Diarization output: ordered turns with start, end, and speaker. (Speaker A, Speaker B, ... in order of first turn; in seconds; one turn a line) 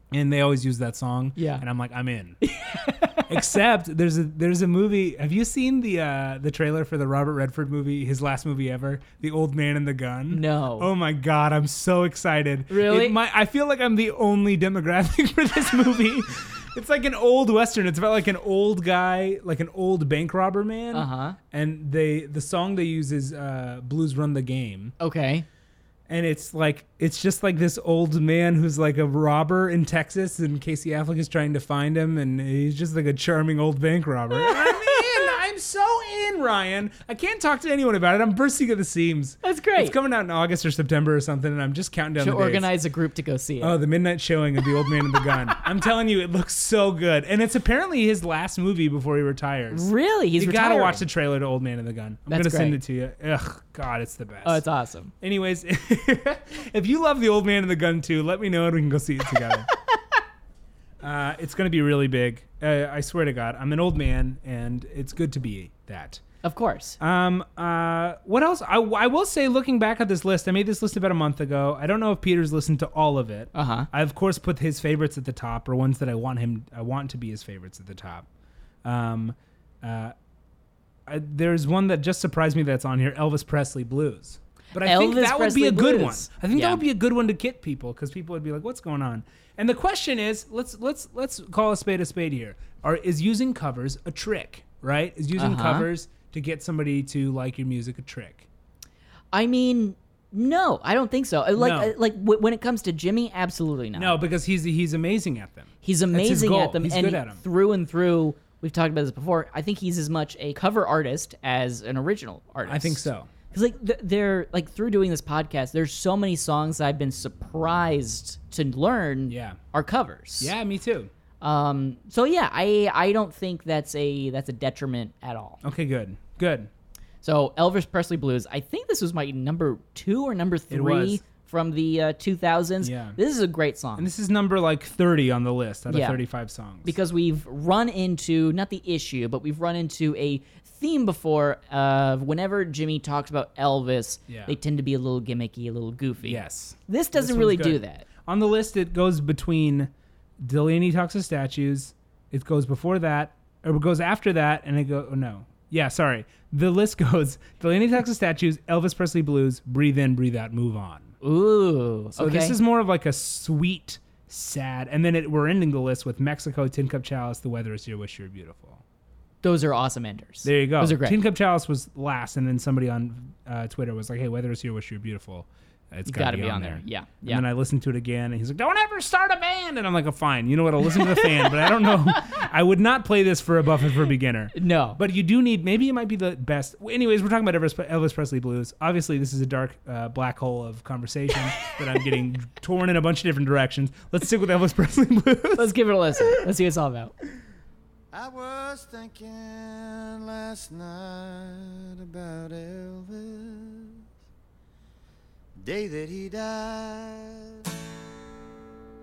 Speaker A: 0.1-2.4
Speaker B: 1.4-1.6
Speaker B: 2.4-3.5
Speaker A: 3.3-24.9
Speaker B: 10.3-10.9
Speaker B: 12.7-13.2
Speaker B: 20.9-21.4
Speaker B: 25.0-25.4
Speaker A: 26.1-42.7
Speaker B: 34.4-35.2
Speaker B: 39.4-39.9
Speaker B: 42.2-43.7
Speaker A: 43.6-54.6
Speaker B: 49.7-51.0
Speaker B: 52.3-52.8
Speaker B: 54.4-55.1
Speaker A: 55.2-59.7
Speaker A: 61.0-66.2
Speaker B: 66.4-67.0
Speaker A: 67.0-78.2
Speaker B: 73.5-73.9
Speaker A: 78.8-80.1
Speaker A: 81.1-98.5
Speaker B: 84.8-86.8
Speaker B: 95.4-95.9
Speaker B: 99.3-104.2
Speaker A: 101.5-101.9
Speaker A: 103.9-107.4
Speaker B: 105.8-120.5
Speaker A: 112.7-113.3
Speaker A: 119.3-119.6
Speaker A: 120.4-121.1
Speaker B: 121.4-125.6
Speaker A: 125.6-126.7
Speaker B: 127.2-134.1
Speaker A: 130.7-131.2
Speaker A: 132.8-133.2
Speaker A: 134.0-136.9
Speaker B: 135.9-136.2
Speaker B: 136.8-148.1
Speaker A: 144.3-144.5
Speaker A: 146.2-161.1
Speaker B: 161.2-162.6
Speaker A: 162.2-168.8
Speaker B: 169.4-171.2
Speaker A: 170.4-195.7
Speaker B: 176.1-177.4
Speaker B: 184.5-185.0
Speaker B: 195.6-197.1
Speaker C: 198.1-204.0
Speaker C: 205.6-207.6